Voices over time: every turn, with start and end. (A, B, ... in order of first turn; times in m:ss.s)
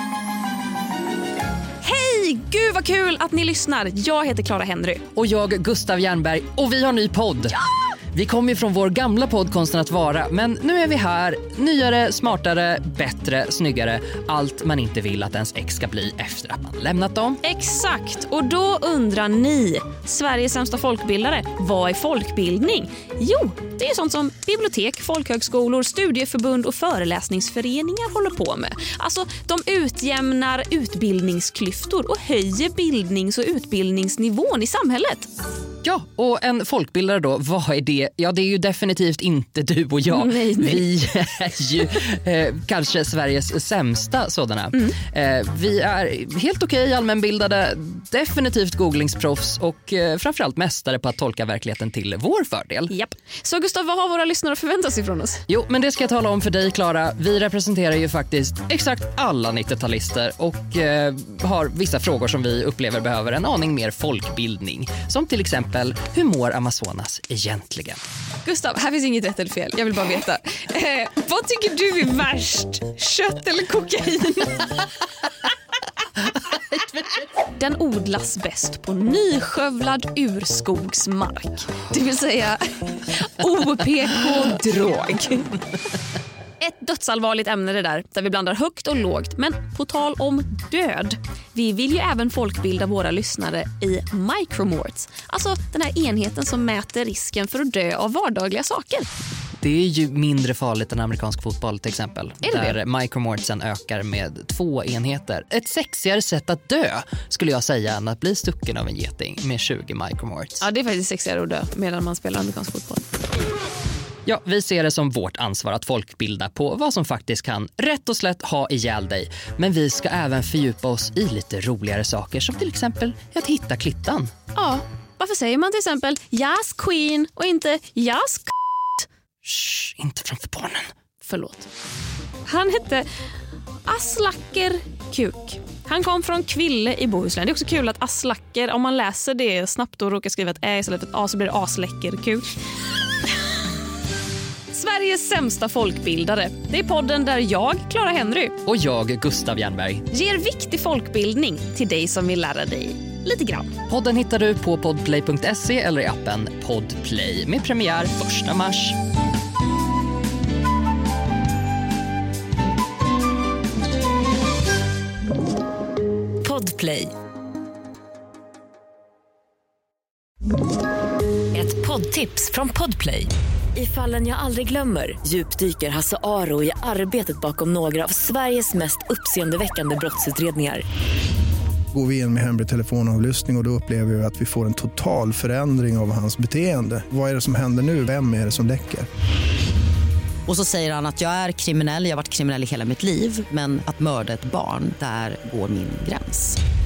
0:01.8-0:05.0 A
0:05.1-0:07.6 B
0:08.1-0:17.4 B
0:17.4-0:35.3 A
0:35.8-0:52.9 B
0:40.1-0:40.9 A
0:52.9-0:55.4 A
0:55.5-1:08.0 B
1:08.4-1:14.7 A
1:17.5-1:25.5 A
1:26.6-1:39.1 A
1:39.6-1:50.6 B
1:42.4-1:42.8 A
1:50.6-1:53.0 A
1:54.2-2:04.3 B
2:04.5-2:09.0 A
2:09.4-2:10.9 B
2:11.2-2:11.7 A
2:12.4-2:13.0 A
2:13.8-2:22.5 A
2:24.7-2:28.6 A
2:28.6-2:30.0 B
2:30.1-2:33.7 A
2:33.9-2:39.0 B
2:46.4-2:47.1 C
2:51.5-3:00.8 C
3:01.9-3:09.1 D
3:10.5-3:16.6 E